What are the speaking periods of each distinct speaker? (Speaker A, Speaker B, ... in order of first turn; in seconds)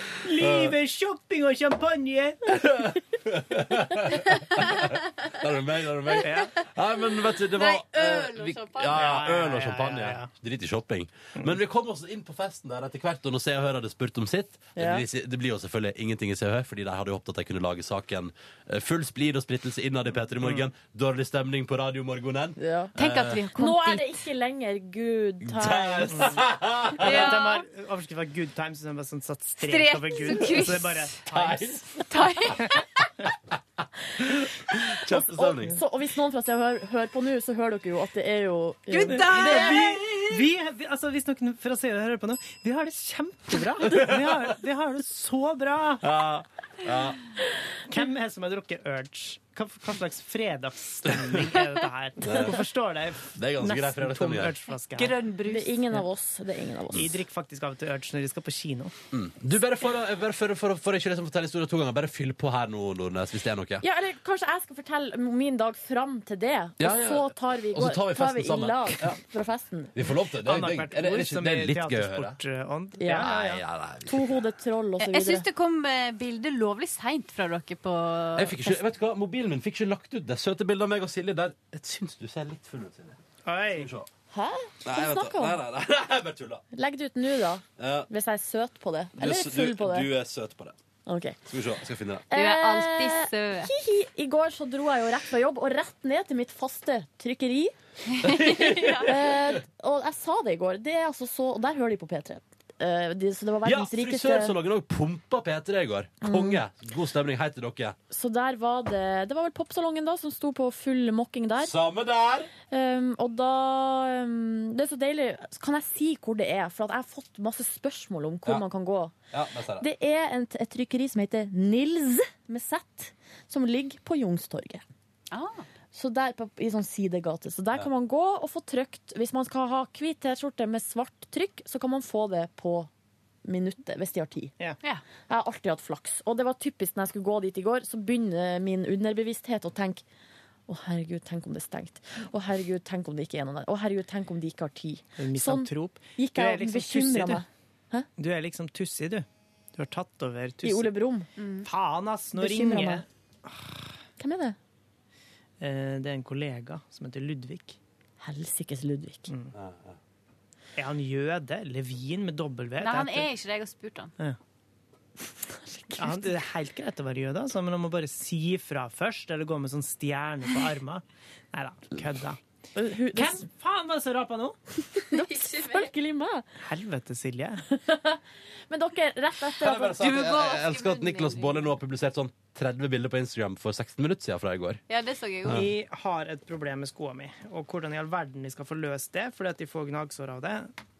Speaker A: 0.2-2.4, 6.2-6.5, 8.9-10.3, 26.1-26.4, 27.0-31.8, 39.0-46.1, 47.9-55.2, 56.9-58.9, 70.4-73.6, 83.4-83.9, 145.2-147.4, 148.2-150.9, 151.6-153.0, 155.6-157.8, 159.3-159.5, 160.8-163.3, 166.0-172.4, 173.1-174.6, 176.6-177.6, 185.5-190.7
Speaker B: 0.4-0.8, 2.5-23.4, 25.4-27.3, 31.3-31.8, 34.2-35.8, 43.9-44.4, 46.0-47.2, 52.2-52.6, 53.3-54.5, 59.1-63.8, 66.8-69.2, 69.9-72.4, 73.1-74.4, 78.3-83.2, 83.7-84.1, 84.8-86.6, 87.8-88.1, 89.2-90.8, 91.5-92.2, 98.2-99.5, 103.6-108.0, 111.6-112.5, 119.3-119.8, 159.5-160.0, 179.6-184.8, 185.4-185.7
Speaker C: 7.5-9.0, 22.9-24.2, 27.0-27.6, 29.6-31.2, 31.9-32.8, 38.9-40.3, 54.9-56.0, 75.0-78.8, 92.3-93.7, 98.2-99.1, 125.3-125.7, 151.4-151.7, 162.8-164.1, 175.1-175.9, 179.9-181.7, 184.9-185.7
Speaker D: 14.8-15.0, 22.6-22.9, 23.5-26.3, 35.0-39.9, 55.4-57.2, 63.8-69.9, 73.0-73.3, 74.0-75.5, 84.3-85.6, 86.7-90.1, 91.0-91.4, 92.3-97.7, 99.0-104.5, 106.2-106.6, 108.1-111.7, 112.7-119.1, 119.8-124.8, 125.9-132.9, 133.4-134.5, 135.3-140.0, 140.7-148.1, 150.6-151.3, 152.4-153.0, 154.2-154.6, 158.2-159.3, 165.7-166.3, 172.8-173.5, 174.9-176.4, 177.7-180.1